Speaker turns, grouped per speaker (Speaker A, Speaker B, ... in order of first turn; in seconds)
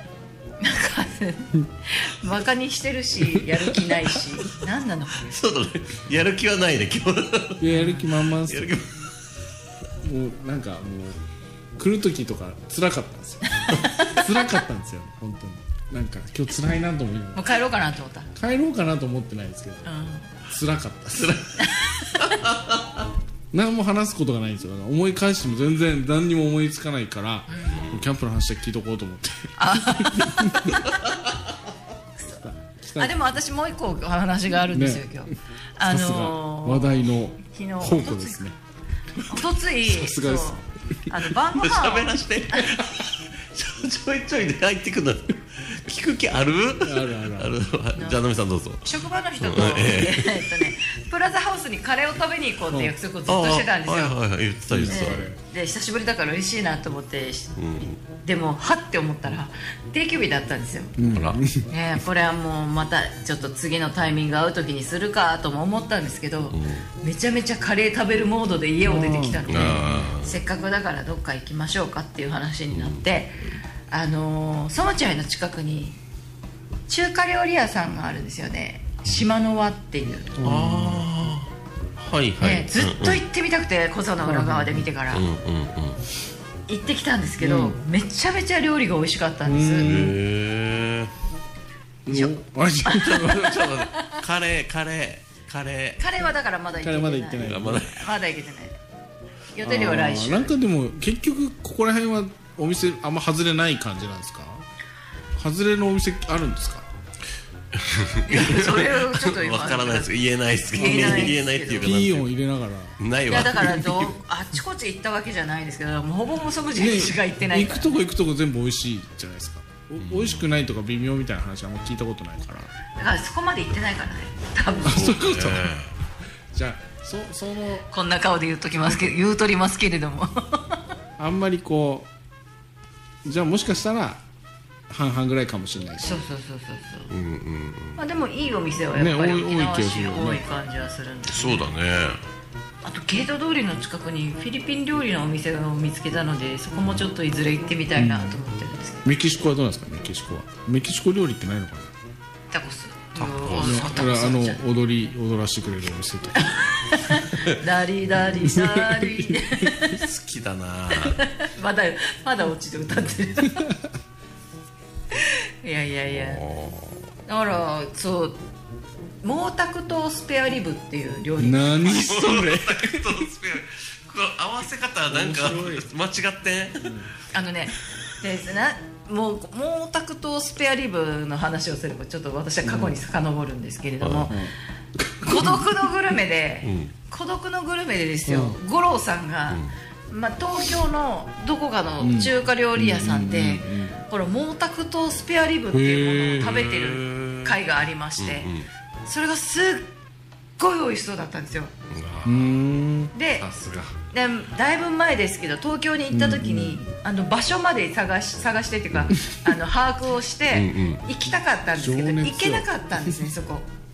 Speaker A: 0.6-5.3, 7.7-8.1, 13.5-14.3, 17.3-18.3, 19.8-20.3, 21.6-22.4, 27.5-27.8, 29.6-30.8, 33.0-38.4, 39.2-42.8, 47.9-48.2, 48.8-54.1, 54.9-60.9, 61.7-76.0, 76.9-80.3, 82.4-85.2, 86.7-89.9, 92.9-94.2, 96.0-98.8, 99.5-100.5, 108.2-110.1, 110.7-111.9, 113.3-117.9, 123.0-125.2, 127.9-130.8, 136.0-137.1, 138.0-141.6, 142.8-149.1, 152.5-154.6, 156.3-160.0, 160.9-163.7, 165.1-166.4, 167.3-168.4, 169.2-172.3, 177.3-184.4, 185.2-198.5, 199.1-199.9, 200.6-201.7, 203.1-203.4, 204.1-213.7
Speaker B: 5.2-7.7, 8.3-9.0, 21.1-23.1, 27.7-28.0, 41.5-50.7, 53.3-55.3, 57.6-58.0, 61.1-61.4, 66.5-66.8, 69.5-70.4, 72.7-73.0, 80.4-83.2, 85.1-86.0, 89.8-91.1, 92.9-96.0, 97.4-98.1, 107.7-112.3, 113.0-114.1, 120.0-120.4, 124.9-125.9, 137.1-138.0, 141.3-142.2, 153.2-154.0, 159.9-161.2, 166.1-166.9, 171.9-176.9, 184.0-184.3, 186.6-186.9, 196.4-197.6, 198.2-198.7, 201.9-202.6, 203.4-203.9, 210.5-211.0
Speaker C: 7.6-8.7, 10.0-11.2, 11.8-17.5, 18.3-19.9, 20.4-21.4, 23.5-30.7, 32.3-33.1, 34.7-35.2, 35.8-38.5, 39.8-40.6, 46.8-47.5, 54.7-55.4, 61.0-61.6, 68.8-70.0, 80.4-81.0, 84.2-84.9, 87.4-87.8, 89.4-90.2, 92.0-93.7, 96.8-97.8, 99.6-104.7, 105.3-106.9, 110.8-113.0, 116.8-122.7, 124.8-125.7, 126.5-127.9, 131.2-132.1, 133.2-134.2, 134.9-136.2, 138.9-140.4, 147.9-148.4, 149.0-151.9, 153.6-156.6, 158.4-159.7, 171.4-173.2, 175.1-175.9, 176.8-177.1, 182.6-182.9, 185.2-185.6, 188.3-188.6, 192.0-194.0, 195.7-196.5, 202.2-203.1, 206.1-206.8, 211.8-213.2